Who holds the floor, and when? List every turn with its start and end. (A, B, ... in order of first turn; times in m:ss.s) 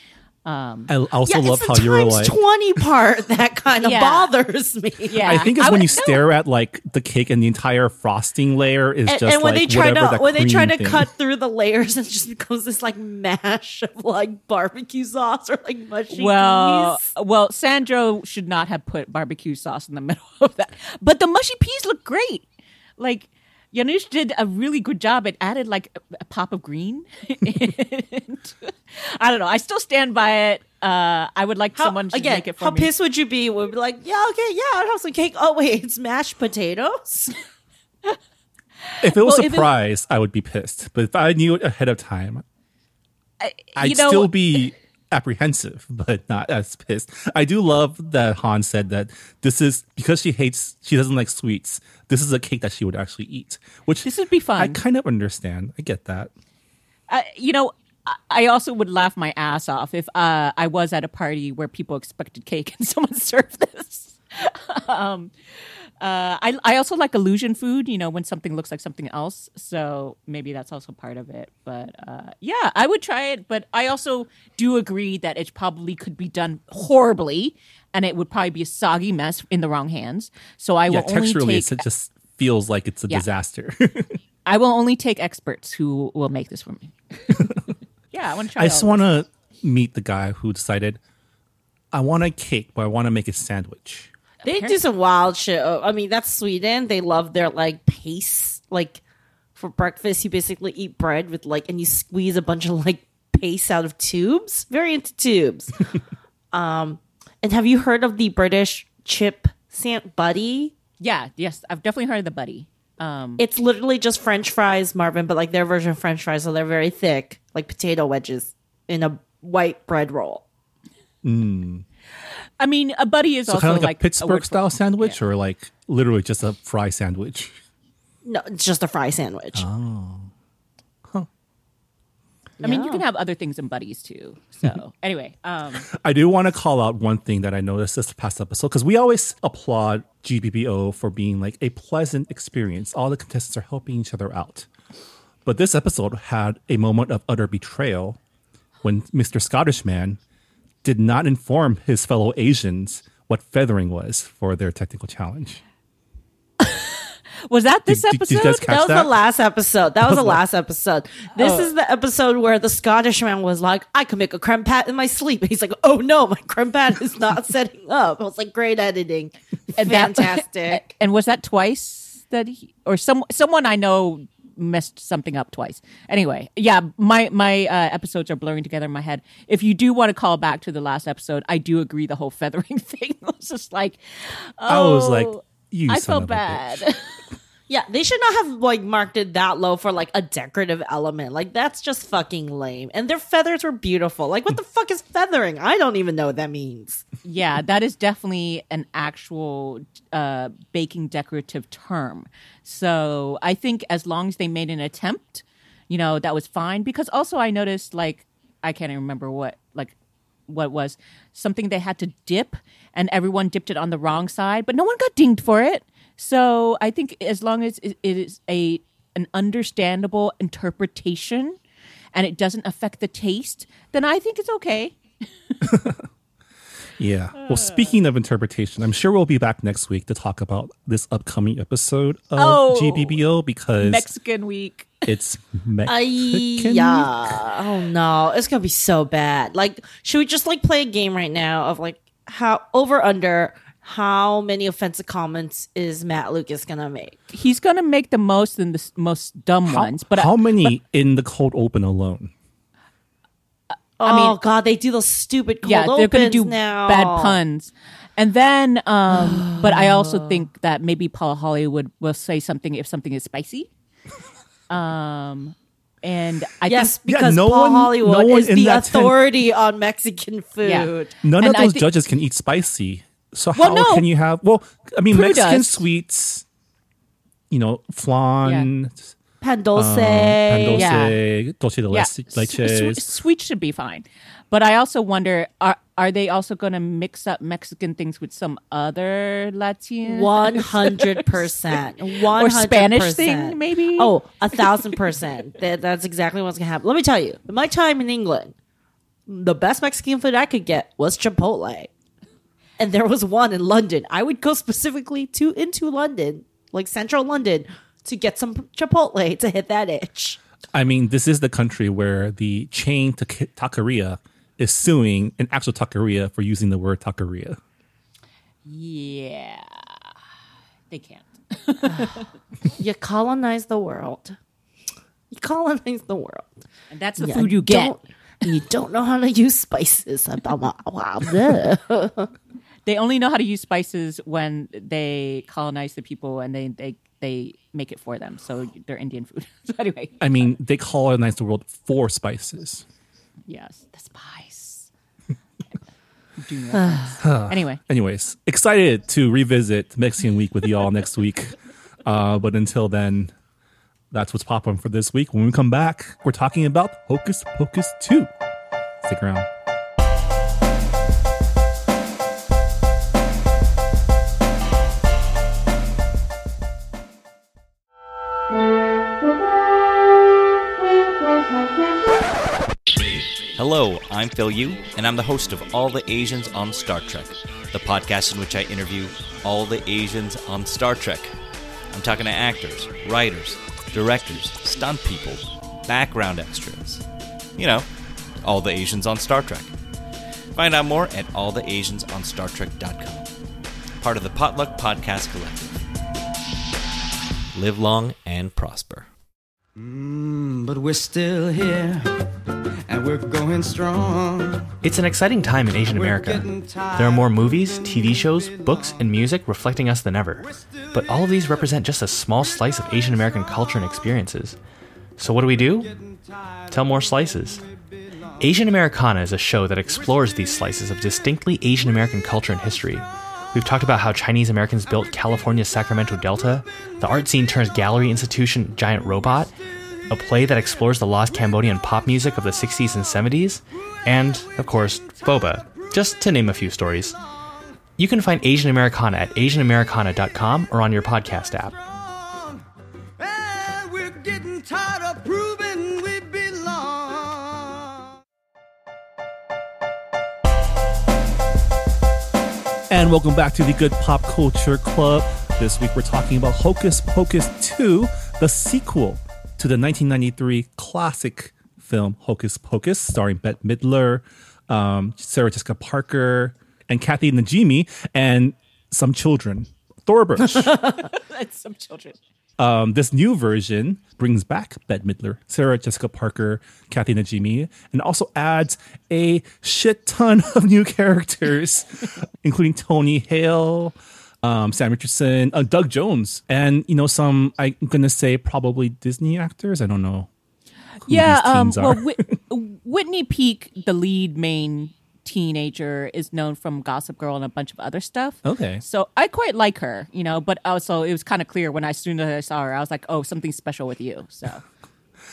0:00.4-0:00.9 A
0:00.9-0:02.4 B
0:01.3-0:05.3 C
0:03.8-0:04.3 A
0:05.1-0:06.2 A
0:05.2-0:11.1 B
0:09.1-0:17.1 C
0:16.1-0:22.4 A
0:23.0-0:32.9 A
0:31.8-0:37.4 C
0:38.8-0:39.7 A
0:39.0-0:42.4 B
0:43.4-0:44.6 A
0:43.8-0:56.3 B
0:54.0-0:54.8 A
0:57.1-1:05.3 A
1:06.0-1:21.8 A
1:20.9-1:24.2 B
1:24.5-1:27.6 A
1:28.1-1:29.1 A
1:28.6-1:31.0 B
1:31.9-1:34.1 B
1:34.4-1:39.0 C
1:34.4-1:34.8 A
1:39.6-1:45.8 C
1:46.5-1:50.7 C
1:51.0-1:53.4 A
1:53.4-2:00.4 C
2:01.2-2:01.8 B
2:02.6-2:05.2 A
2:03.5-2:07.6 B
2:08.2-2:09.7 C
2:09.6-2:10.3 B
2:12.6-2:13.0 C
2:12.6-2:15.9 A
2:15.9-2:24.7 B
2:25.4-2:28.2 B
2:28.8-2:30.2 B
2:30.8-2:35.6 B
2:36.6-2:38.7 A
2:37.9-2:39.1 B
2:38.7-2:50.9 C
2:40.0-2:40.4 B
2:41.4-2:41.7 A
2:49.8-3:07.2 A
3:04.7-3:06.9 B
3:07.7-3:17.1 C
3:17.2-3:29.9 A
3:30.5-3:41.6 A
3:42.1-3:45.0 A
3:45.6-3:46.0 B
3:47.0-3:54.1 B
3:47.4-3:48.0 A
3:52.4-3:53.2 A
3:53.8-3:55.0 A
3:55.1-3:57.4 B
3:55.9-4:07.2 C
4:07.3-4:10.7 A
4:09.6-4:12.3 B
4:14.0-4:17.4 C
4:14.0-4:14.4 A
4:15.6-4:23.7 A
4:19.1-4:20.4 C
4:24.7-4:26.9 A
4:26.7-4:31.1 C
4:27.0-4:29.2 B
4:30.6-4:31.9 A
4:31.2-4:36.4 B
4:33.6-4:34.1 A
4:35.1-4:35.8 A
4:37.5-4:39.1 B
4:39.4-4:40.9 C
4:39.8-4:43.0 B
4:40.7-4:41.2 A
4:41.9-4:51.4 A
4:50.0-4:58.5 C
4:52.3-4:54.6 A
4:59.3-5:01.9 C
5:02.8-5:10.4 C
5:10.7-5:17.6 B
5:18.6-5:20.0 A
5:20.9-5:22.3 A
5:21.9-5:22.2 C
5:22.8-5:24.4 C
5:25.3-5:26.5 C
5:26.9-5:28.0 A
5:27.2-5:32.3 C
5:32.9-5:40.2 A
5:40.2-5:42.8 B
5:43.5-5:44.9 A
5:46.4-5:47.8 A
5:46.8-5:47.0 C
5:47.2-5:53.3 B
5:54.1-5:58.3 B
5:59.0-5:59.5 B
6:13.6-6:21.3 D
6:21.9-6:27.0 D
6:27.6-6:27.9 D
6:28.4-6:29.7 D
6:30.6-6:33.3 D
6:34.0-6:35.8 D
6:37.5-6:39.1 D
6:39.8-6:42.1 E
6:42.9-6:44.8 E
6:44.8-6:54.6 F
6:45.9-6:47.4 E
6:55.2-6:56.0 F
6:56.7-6:57.6 F
6:58.4-7:09.6 F
7:10.1-7:17.2 F
7:18.0-7:21.8 F
7:25.1-7:25.5 E
7:32.9-7:50.7 B
7:50.5-7:51.0 C
7:51.0-7:52.2 A
7:52.6-8:10.3 B
8:11.0-8:12.4 B
8:11.0-8:24.6 A
8:18.4-8:18.8 B